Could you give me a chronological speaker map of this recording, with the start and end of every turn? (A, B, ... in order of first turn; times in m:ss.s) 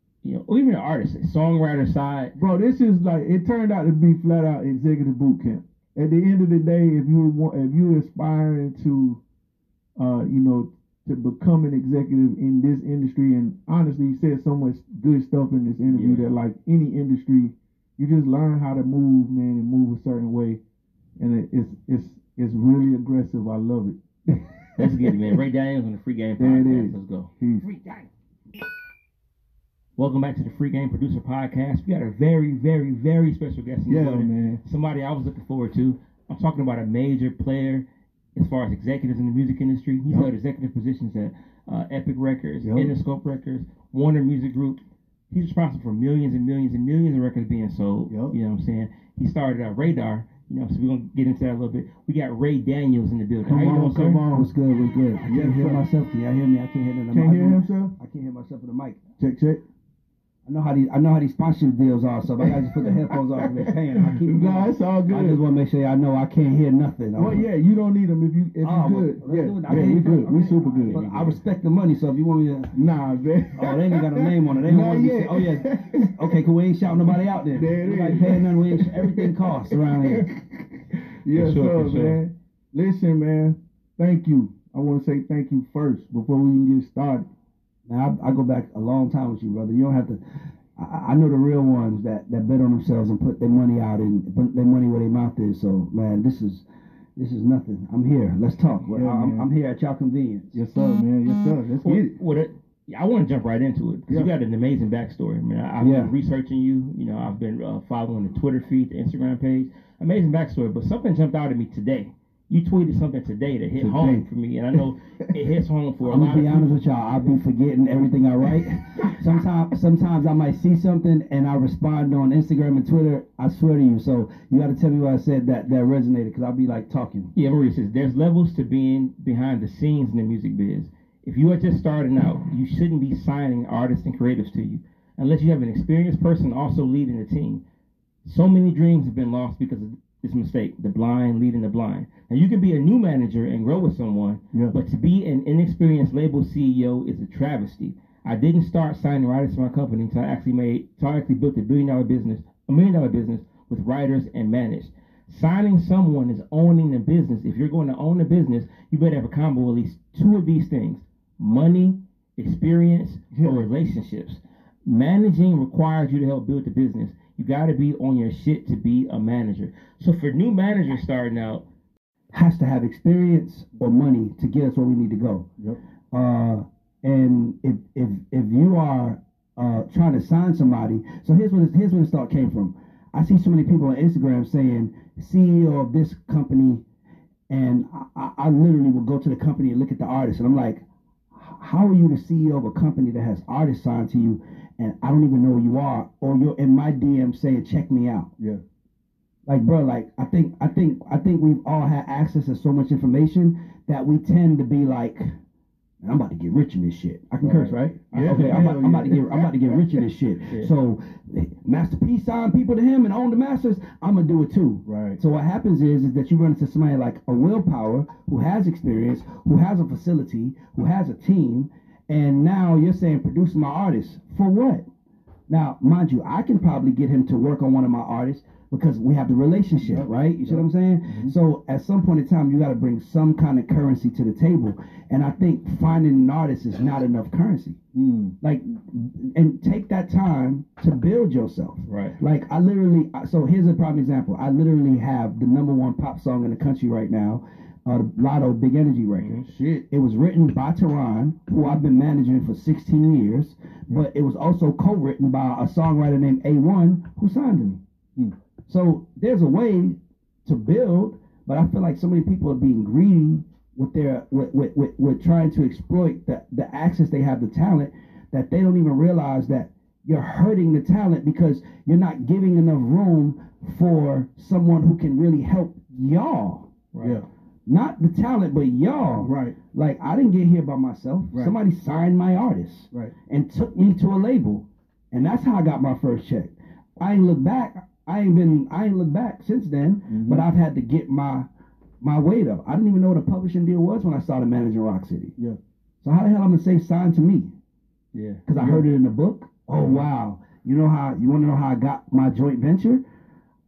0:00.2-0:02.3 A
0:02.4-0:09.2 B
0:10.0-0:20.6 B
0:15.9-0:16.3 A
0:21.2-0:25.2 B
0:24.8-0:28.1 A
0:26.4-0:27.7 B
0:30.0-0:54.2 A
0:33.9-0:34.6 B
0:42.6-0:43.0 B
0:48.1-0:48.4 B
0:53.4-0:54.5 B
0:54.3-0:59.0 C
0:55.3-0:55.8 B
0:57.1-0:58.0 B
0:59.2-0:59.6 B
1:00.5-1:07.5 C
1:02.4-1:05.4 B
1:07.2-1:11.0 B
1:08.6-1:12.8 C
1:10.9-1:11.4 A
1:12.8-1:16.4 B
1:13.5-1:20.3 C
1:17.5-1:27.3 B
1:21.4-1:22.2 A
1:27.9-1:30.2 C
1:30.8-1:36.6 C
1:37.2-1:40.6 C
1:38.9-1:39.5 B
1:40.5-1:42.2 B
1:41.8-1:56.8 A
1:45.8-1:46.1 C
1:53.8-1:54.3 C
1:56.0-2:07.3 C
2:07.4-2:17.6 A
2:18.2-2:51.6 A
2:43.3-2:43.6 B
2:52.3-2:55.5 C
2:56.1-3:06.8 C
3:07.5-3:18.3 C
3:19.5-3:25.3 C
3:26.0-3:44.8 C
3:27.4-3:30.0 B
3:28.2-3:28.5 A
3:34.9-3:35.2 B
3:45.5-3:57.8 C
3:49.8-3:51.3 B
3:58.0-3:58.3 B
3:58.4-4:17.8 C
4:01.9-4:02.2 A
4:09.2-4:09.5 A
4:09.4-4:09.9 B
4:18.7-4:36.8 C
4:36.9-4:37.2 A
4:37.7-4:51.5 C
4:39.2-4:39.6 B
4:50.1-4:50.5 B
4:52.0-4:55.4 C
4:56.0-4:57.5 C
4:58.1-4:58.4 A
4:58.5-5:03.0 C
4:58.5-4:58.9 B
4:59.8-5:00.1 A